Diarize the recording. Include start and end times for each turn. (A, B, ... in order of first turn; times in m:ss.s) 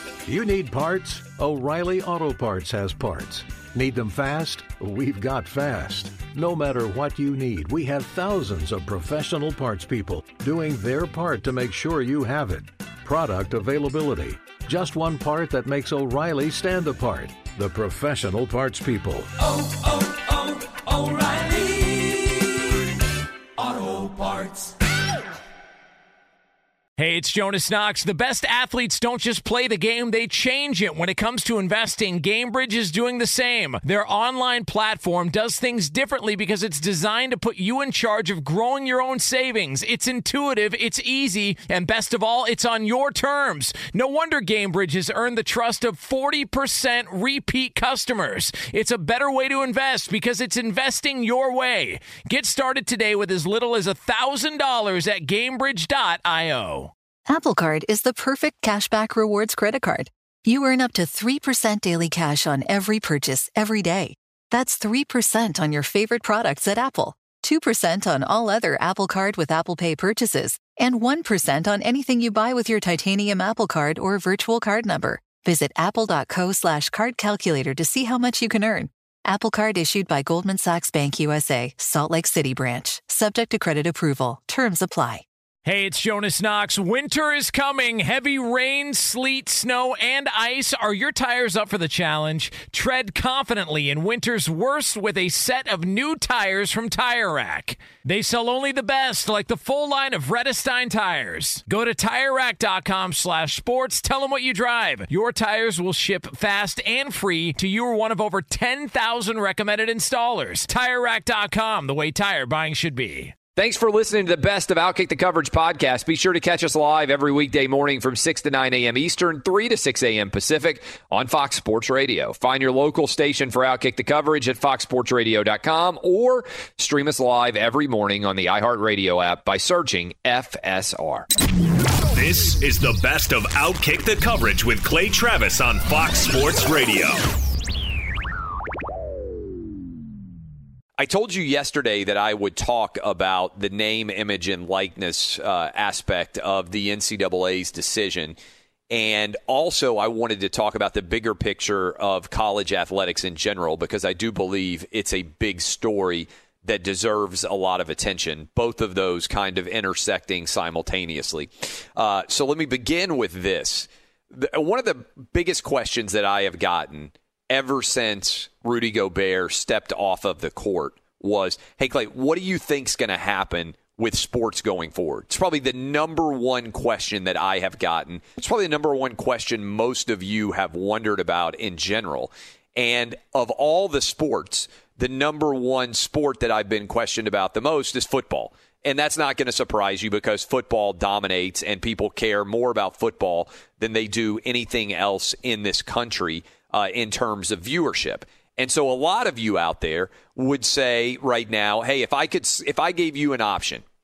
0:00.2-0:19.3 A
0:19.4-0:22.8 B
0:23.6-0:24.8 B
0:27.0-0:56.9 C
0:57.3-1:25.2 D
1:25.6-1:53.4 C
1:53.6-2:11.3 E
2:12.1-2:17.2 F
2:21.0-2:28.4 E
2:28.9-3:23.8 E